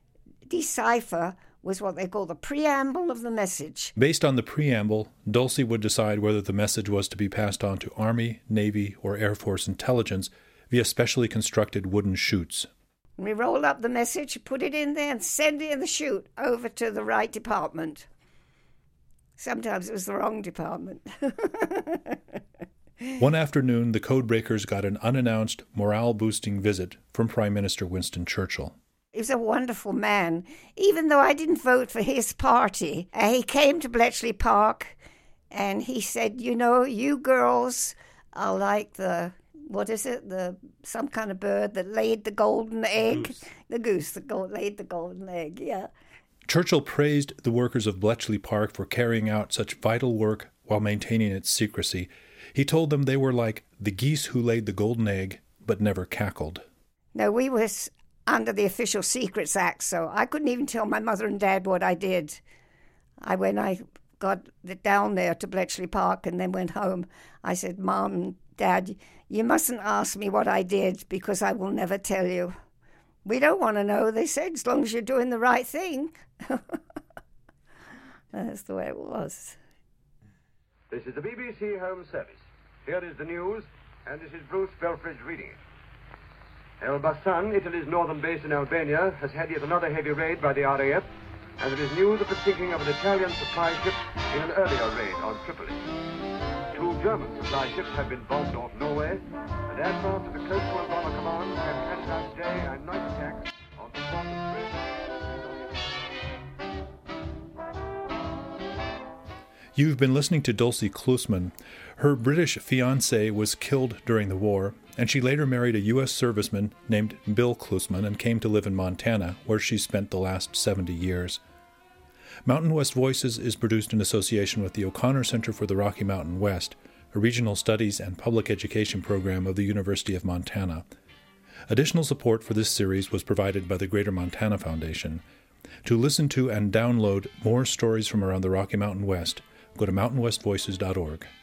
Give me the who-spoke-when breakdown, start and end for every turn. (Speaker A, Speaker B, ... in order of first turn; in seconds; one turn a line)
Speaker A: 0.5-3.9
Speaker B: 4.0-12.7
Speaker A: 13.2-18.1
Speaker A: 19.4-22.2
Speaker B: 23.2-28.7
Speaker A: 29.1-34.9
Speaker A: 35.5-45.9
Speaker B: 46.5-56.6
Speaker A: 57.1-62.4
Speaker A: 63.2-72.5
Speaker A: 73.2-76.8
Speaker A: 78.3-79.6
Speaker C: 80.9-85.6
Speaker C: 86.8-91.1
Speaker C: 91.6-95.8
Speaker C: 96.7-106.2
Speaker B: 109.8-121.4
Speaker B: 122.4-130.8
Speaker B: 131.7-135.2
Speaker B: 135.8-141.3